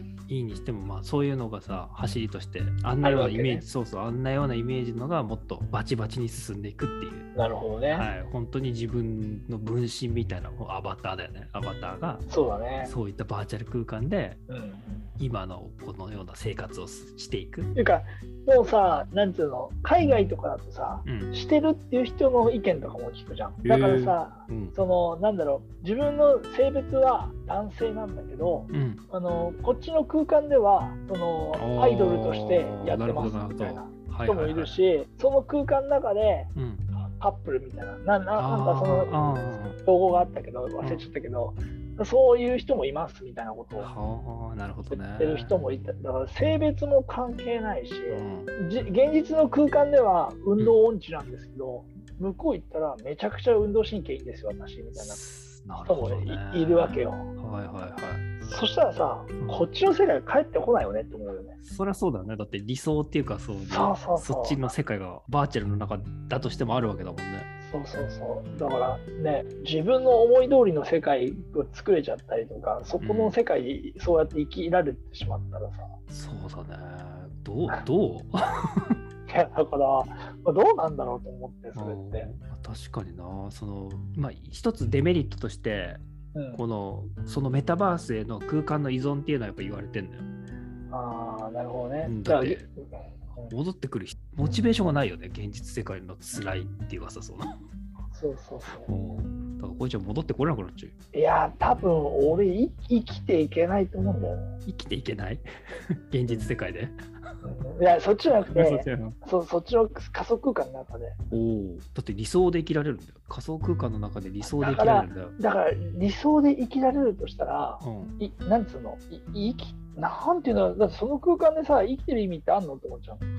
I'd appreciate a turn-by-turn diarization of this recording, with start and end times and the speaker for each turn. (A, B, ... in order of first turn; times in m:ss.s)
0:00.3-0:07.3 A
0:03.0-0:03.6 B
0:07.3-0:08.1 B
0:07.9-0:12.2 A
0:12.3-0:12.9 B
0:12.8-0:14.4 A
0:14.5-0:15.1 B
0:15.2-0:17.7 A
0:17.7-0:43.9 B
0:21.0-0:21.3 A
0:23.6-0:24.8 A
0:28.7-0:29.0 A
0:31.5-0:34.8 A
0:36.5-0:36.8 A
0:38.4-0:39.8 A
0:43.8-0:45.6 A
0:44.9-0:55.2 B
0:48.1-0:48.5 A
0:54.9-0:58.2 A
0:55.8-0:57.3 B
0:58.4-1:01.6 B
0:59.4-0:59.7 A
1:01.6-1:07.5 A
1:03.6-1:04.7 B
1:07.6-1:15.9 B
1:13.0-1:13.4 A
1:16.1-1:19.0 A
1:19.3-1:22.3 B
1:21.8-1:26.0 A
1:26.3-1:26.6 B
1:26.5-1:30.2 A
1:30.9-1:32.8 B
1:32.0-1:32.6 A
1:33.5-1:37.6 A
1:38.1-1:38.9 B
1:38.8-1:40.9 A
1:41.1-1:44.5 B
1:44.6-1:47.0 A
1:47.4-1:51.2 B
1:48.5-1:49.2 A
1:51.3-1:55.4 A
1:54.4-2:03.2 B
1:57.8-1:58.2 A